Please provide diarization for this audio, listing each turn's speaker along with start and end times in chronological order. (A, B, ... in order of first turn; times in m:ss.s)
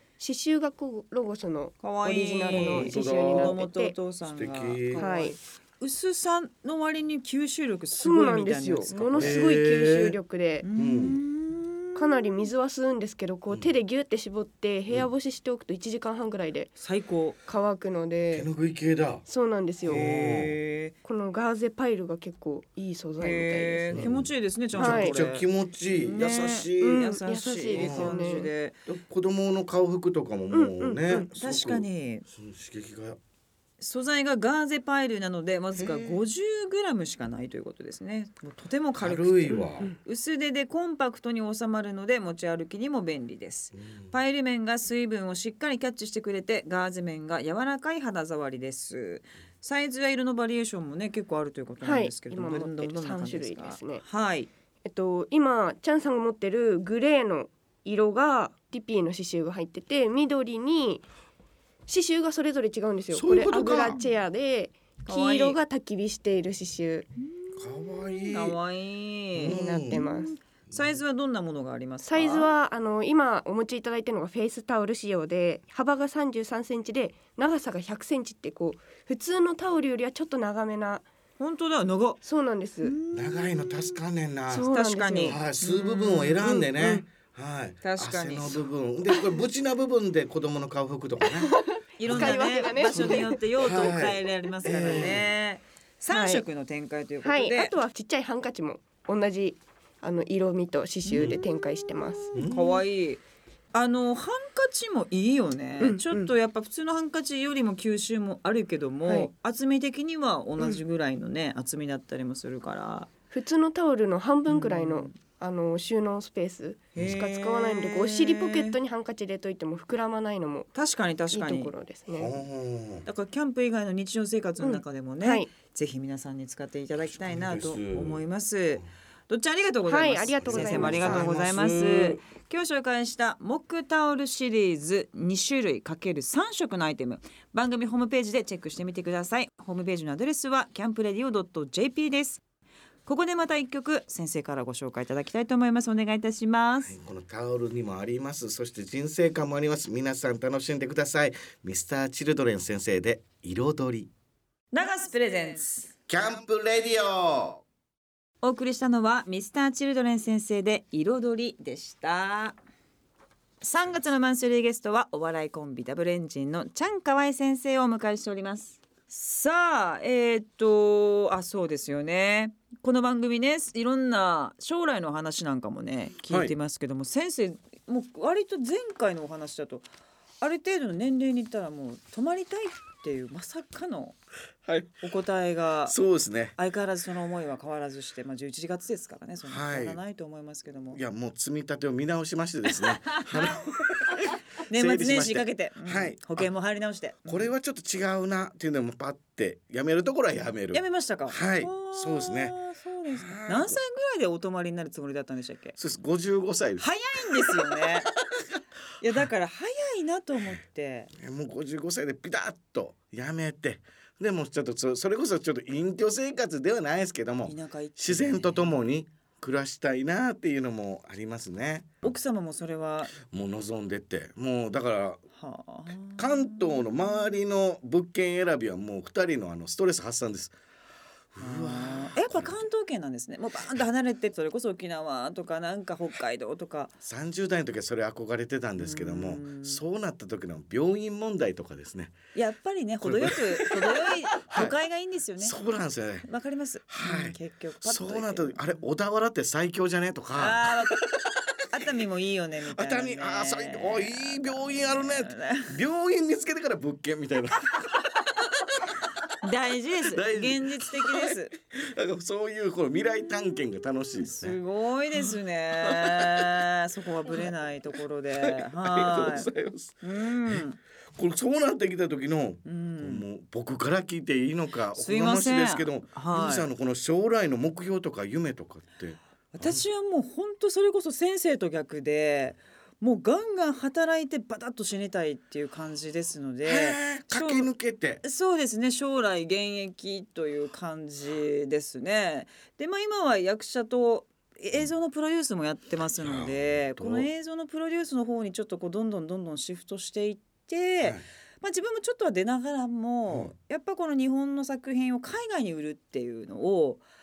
0:00.2-0:04.0 A
0:01.8-0:09.4 B
0:02.5-0:03.6 C
0:04.3-0:05.0 C
0:05.0-0:05.4 A
0:08.0-0:10.7 A
0:09.2-0:10.2 C
0:10.6-0:12.4 B
0:10.8-0:11.2 C
0:12.0-0:16.7 A
0:16.8-0:17.4 B
0:17.5-0:18.5 A
0:18.3-0:19.2 C
0:19.2-0:20.4 A
0:19.9-0:20.5 C
0:19.9-0:21.0 B
0:21.0-0:24.0 A
0:23.2-0:25.4 B
0:23.9-0:27.1 C
0:24.8-0:25.2 A
0:26.0-0:28.8 B
0:26.8-0:28.5 A
0:27.7-0:33.2 C
0:30.5-0:31.3 A
0:31.4-0:32.2 B
0:33.8-0:54.5 B
0:35.8-0:36.2 C
0:39.0-0:39.9 C
0:43.7-0:44.1 C
0:51.8-0:54.0 A
0:54.8-1:01.0 A
1:01.9-1:07.1 A
1:03.1-1:04.0 C
1:05.1-1:05.6 B
1:07.6-1:08.6 C
1:08.3-1:12.5 B
1:09.4-1:10.0 C
1:09.5-1:10.3 A
1:12.0-1:21.1 A
1:21.4-1:22.2 B
1:22.2-1:23.0 A
1:22.8-1:24.0 B
1:23.1-1:24.7 C
1:24.5-1:25.4 A
1:24.7-1:27.0 B
1:25.2-1:35.3 C
1:27.8-1:28.7 B
1:31.3-1:33.7 A
1:32.0-1:37.8 B
1:36.1-1:36.4 A
1:37.2-1:42.4 A
1:41.0-1:41.4 B
1:42.4-1:42.8 C
1:42.4-1:43.2 B
1:43.7-1:53.1 B
1:45.8-1:46.3 A
1:53.3-2:00.7 A
1:54.5-1:55.2 B
1:57.0-1:58.8 B
2:00.7-2:01.7 B
2:01.3-2:02.3 A
2:02.1-2:03.1 C
2:03.1-2:22.4 B
2:04.6-2:05.5 A
2:07.0-2:08.2 C
2:09.9-2:11.3 A
2:10.4-2:12.2 C
2:23.1-2:27.0 B
2:26.8-2:34.1 C
2:34.7-2:35.9 B
2:36.1-2:37.6 C
2:38.4-2:42.6 B
2:43.6-2:59.9 B
2:56.3-2:56.5 C
3:00.4-3:04.2 B
3:04.6-3:05.0 C
3:05.0-3:06.0 B
3:05.9-3:06.6 C
3:06.6-3:11.0 B
3:09.5-3:10.0 C
3:10.9-3:16.5 C
3:12.7-3:13.6 B
3:14.6-3:17.5 B
3:17.2-3:22.6 C
3:20.7-3:25.8 B
3:23.1-3:23.8 C
3:25.8-3:28.4 C
3:26.8-3:28.1 B
3:29.0-3:31.1 B
3:31.2-3:42.0 C
3:37.4-3:38.8 B
3:42.0-3:43.1 B
3:43.2-3:45.2 C
3:45.4-3:47.1 B
3:46.2-3:50.5 C
3:51.3-3:52.7 C
3:51.4-3:57.0 B
3:57.0-4:02.2 C
3:58.8-3:59.8 B
4:02.4-4:05.6 B
4:03.0-4:04.8 C
4:05.4-4:06.3 C
4:06.2-4:08.8 B
4:06.9-4:11.8 C
4:10.4-4:11.0 B
4:11.7-4:15.8 B
4:12.7-4:19.0 C
4:19.4-4:21.5 B
4:20.0-4:24.6 C
4:24.2-4:29.5 B
4:25.8-4:26.6 C
4:28.4-4:30.6 C
4:30.0-4:30.8 B
4:31.2-4:39.8 C
4:32.6-4:33.2 B
4:34.9-4:36.7 B
4:39.5-4:47.7 B
4:46.6-4:48.2 C
4:48.2-5:07.0 B
4:56.2-4:57.3 C
5:03.3-5:03.5 C